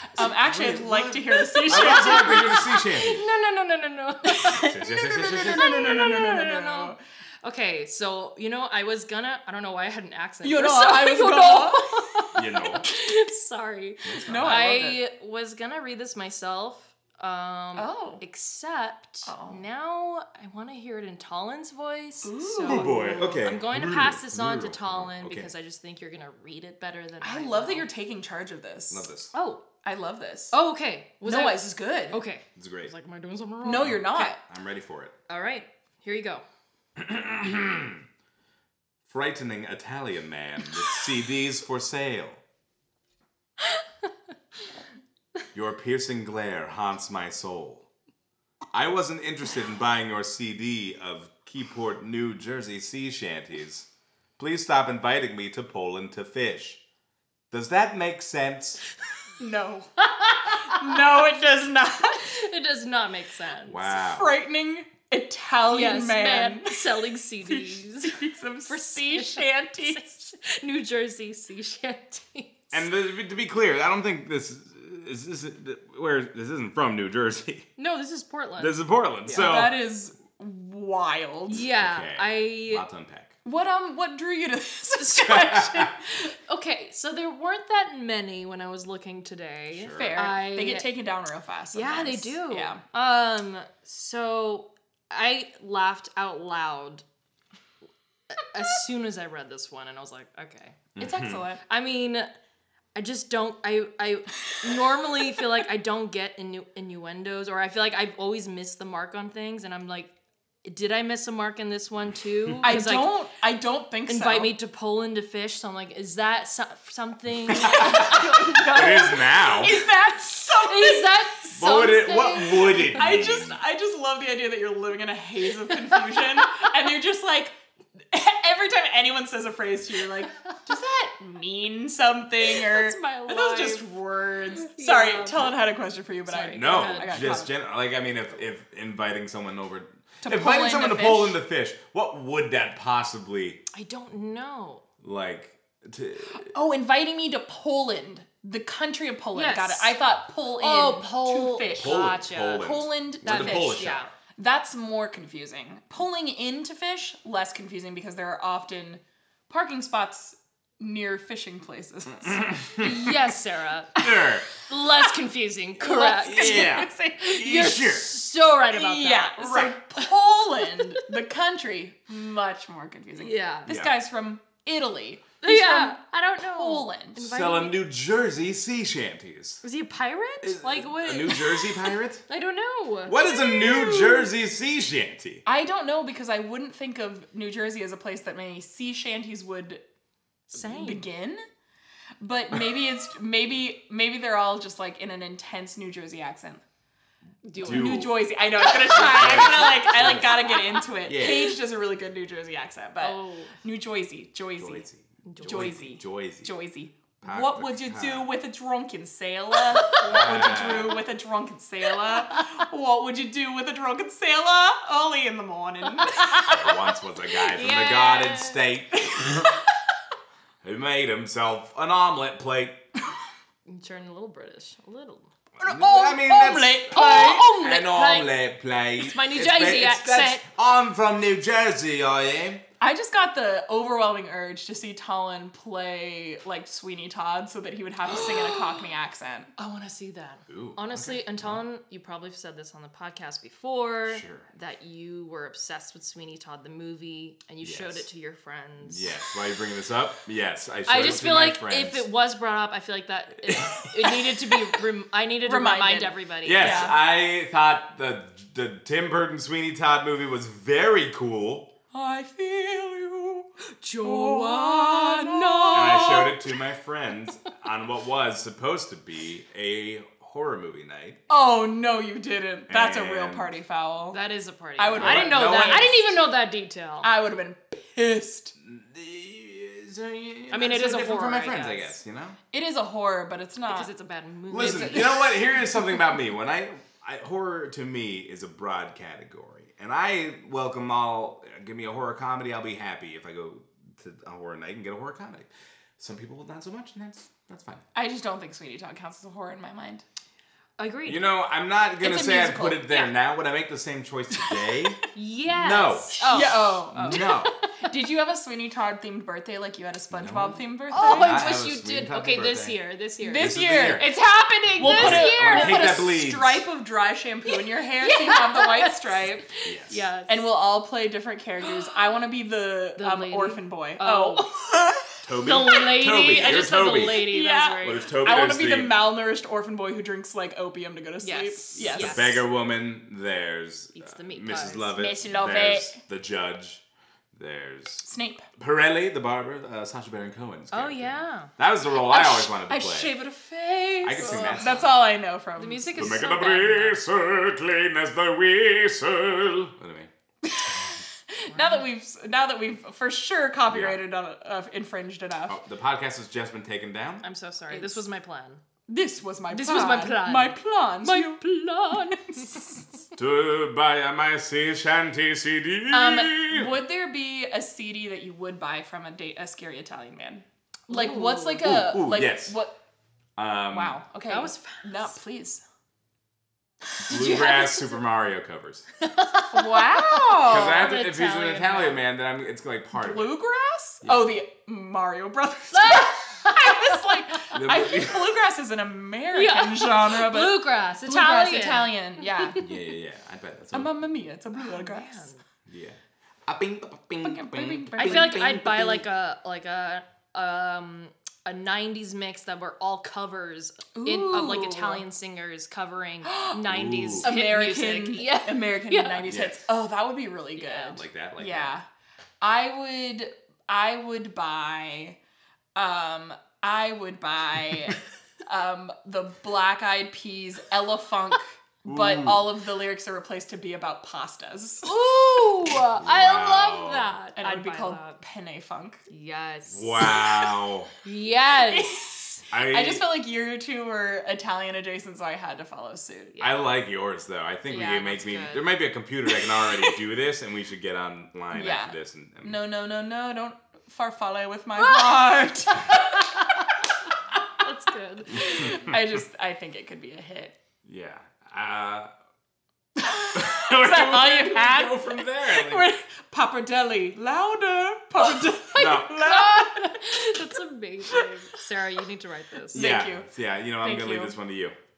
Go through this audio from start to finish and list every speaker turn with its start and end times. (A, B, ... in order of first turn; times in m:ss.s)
0:00.2-0:02.4 A
0:00.2-0:03.2 B
0:01.4-0:27.9 C
0:04.3-0:07.0 A
0:04.6-0:06.2 B
0:10.4-0:12.1 A
0:12.4-0:12.8 B
0:14.1-0:14.6 B
0:14.3-0:15.0 A
0:17.8-0:18.2 A
0:19.3-0:19.6 A
0:22.2-0:23.3 A
0:22.7-0:25.5 B
0:27.2-0:29.1 A
0:28.9-0:29.3 B
0:29.3-0:29.6 C
0:29.8-0:30.6 A
0:30.5-0:34.4 C
0:31.2-0:32.2 A
0:32.6-0:32.9 B
0:33.6-0:34.4 A
0:33.8-0:35.1 B
0:35.3-0:36.4 C
0:37.0-0:38.0 B
0:39.1-0:42.4 B
0:45.5-0:47.9 B
0:48.7-0:53.9 B
0:54.4-0:56.8 B
0:57.5-0:58.8 B
0:59.4-0:59.9 A
1:00.0-1:01.0 C
1:00.6-1:02.3 A
1:02.2-1:03.9 C
1:03.6-1:04.4 B
1:04.1-1:10.2 A
1:05.7-1:12.6 C
1:12.7-1:17.7 B
1:17.8-1:18.8 C
1:18.6-1:19.8 B
1:19.3-1:21.6 A
1:21.5-1:23.4 B
1:21.5-1:22.9 C
1:23.4-1:26.2 A
1:25.0-1:25.9 C
1:26.5-1:30.9 C
1:29.7-1:30.2 B
1:30.0-1:32.8 A
1:31.7-1:37.0 C
1:38.3-1:40.8 C
1:41.0-1:41.4 B
1:41.0-1:41.6 A
1:41.7-1:42.3 C
1:43.0-1:50.1 C
1:50.6-1:53.2 C
1:52.6-1:54.5 A
1:54.1-1:59.0 C
1:57.6-2:01.1 A
1:57.6-1:59.8 B
2:00.6-2:03.1 C
2:01.6-2:03.6 B
2:02.9-2:07.6 A
2:08.1-2:17.5 A
2:12.5-2:13.9 C
2:14.6-2:15.5 C
2:16.3-2:17.4 C
2:16.5-2:23.6 B
2:20.2-2:21.4 A
2:23.7-2:24.8 C
2:25.0-2:26.5 B
2:26.4-2:42.8 A
2:29.4-2:30.0 C
2:30.6-2:34.1 C
2:31.8-2:34.1 B
2:42.3-2:43.1 B
2:42.8-2:49.8 C
2:44.0-2:44.5 B
2:45.8-2:47.4 A
2:46.2-2:48.1 B
2:48.7-2:56.0 A
2:53.2-2:53.7 C
2:53.7-2:53.9 B
2:55.4-2:57.8 C
2:56.5-2:57.3 A
2:57.3-2:59.6 B
2:59.6-3:04.3 C
3:00.4-3:02.2 B
3:03.1-3:05.4 B
3:05.4-3:09.8 A
3:10.5-3:11.1 C
3:10.5-3:11.4 A
3:12.2-3:16.6 A
3:17.4-3:18.1 C
3:17.6-3:21.6 B
3:17.6-3:24.9 A
3:19.6-3:20.3 C
3:23.0-3:23.5 C
3:24.6-3:26.6 B
3:25.3-3:25.8 C
3:25.4-3:36.4 A
3:27.2-3:28.3 B
3:29.8-3:31.0 B
3:36.2-3:36.5 C
3:36.4-3:39.5 B
3:37.4-3:38.6 C
3:40.6-3:42.8 B
3:43.7-3:45.3 C
3:45.6-3:47.6 A
3:45.6-3:52.6 B
3:46.9-3:48.5 C
3:49.0-3:50.4 C
3:52.8-3:59.5 A
3:58.1-3:58.6 B
3:59.6-4:09.2 C
4:00.5-4:01.6 B
4:04.1-4:04.5 B
4:07.6-4:08.1 B
4:08.8-4:12.0 B
4:10.9-4:16.9 C
4:13.5-4:13.8 B
4:15.4-4:16.9 A
4:16.4-4:21.7 B
4:21.9-4:23.5 A
4:23.8-4:26.4 C
4:24.0-4:26.3 A
4:25.7-4:31.2 B
4:31.3-4:34.2 A
4:32.7-4:33.5 B
4:34.1-4:37.1 C
4:34.8-4:36.1 A
4:34.9-4:36.0 B
4:37.0-4:38.5 A
4:38.6-4:42.4 B
4:40.5-4:42.0 C
4:42.5-4:43.9 A
4:43.7-4:45.4 C
4:44.5-4:57.8 B
4:44.6-4:45.3 A
4:58.0-5:00.0 A
5:00.8-5:01.3 C
5:01.1-5:07.5 B
5:02.0-5:03.0 A
5:05.1-5:07.7 C
5:06.2-5:11.6 A
5:10.1-5:12.8 B
5:10.9-5:16.1 C
5:13.2-5:19.5 A
5:13.4-5:14.2 B
5:14.8-5:16.6 B
5:18.0-5:20.5 C
5:19.6-5:20.0 B
5:20.3-5:25.1 A
5:23.0-5:24.6 C
5:25.2-5:27.2 B
5:25.4-5:28.1 C
5:26.6-5:32.4 A
5:27.8-5:29.1 B
5:31.2-5:32.4 C
5:31.8-5:36.8 B
5:34.0-5:35.0 C
5:35.0-5:36.0 A
5:37.3-5:43.1 B
5:38.0-5:38.5 A
5:40.7-5:41.5 C
5:42.0-5:46.2 A
5:44.0-5:45.0 B
5:44.2-5:44.8 C
5:45.6-5:47.0 C
5:46.0-5:50.1 B
5:50.4-5:55.6 A
5:51.5-5:51.8 C
5:53.7-5:54.0 B
5:55.5-5:57.2 B
5:57.2-5:58.6 C
5:57.7-5:58.0 A
5:58.9-6:01.4 A
5:59.5-6:02.8 C
6:01.9-6:02.8 A
6:03.2-6:06.8 B
6:05.9-6:12.7 A
6:10.9-6:11.8 C
6:11.6-6:12.6 B
6:13.4-6:14.0 B
6:13.7-6:15.6 A
6:14.3-6:15.1 C
6:17.1-6:18.9 B
6:17.1-6:17.5 A
6:17.2-6:17.8 C
6:19.0-6:22.0 C
6:19.5-6:20.9 A
6:20.4-6:23.4 B
6:22.9-6:32.6 A
6:24.0-6:24.4 B
6:25.7-6:27.0 C
6:27.5-6:28.4 B
6:29.3-6:32.6 C
6:32.6-6:34.0 B
6:33.7-6:35.3 A
6:34.6-6:35.4 C
6:35.7-6:39.0 B
6:37.2-6:38.6 A
6:38.0-6:49.3 C
6:44.0-6:45.0 A
6:46.3-6:46.6 A
6:46.7-6:47.3 B
6:47.2-6:51.8 A
6:49.2-6:49.6 B
6:50.6-6:50.9 C
6:50.9-6:51.8 B
6:52.4-6:55.2 A
6:55.8-7:04.9 A
7:01.9-7:02.5 B
7:04.8-7:08.2 C
7:06.0-7:07.2 B
7:07.4-7:09.0 A
7:09.1-7:10.3 C
7:09.7-7:10.9 B
7:11.0-7:12.0 C
7:11.7-7:16.4 A
7:12.5-7:13.1 B
7:16.4-7:16.7 C
7:16.4-7:22.6 B
7:17.7-7:18.8 C
7:21.5-7:26.0 A
7:24.8-7:26.5 C
7:27.6-7:28.8 C
7:28.3-7:30.6 A
7:30.8-7:32.1 B
7:33.0-7:40.2 A
7:33.3-7:35.9 B
7:38.7-7:39.2 B
7:39.1-7:43.0 C
7:42.7-7:43.3 A
7:42.7-7:44.8 B
7:43.8-7:44.4 A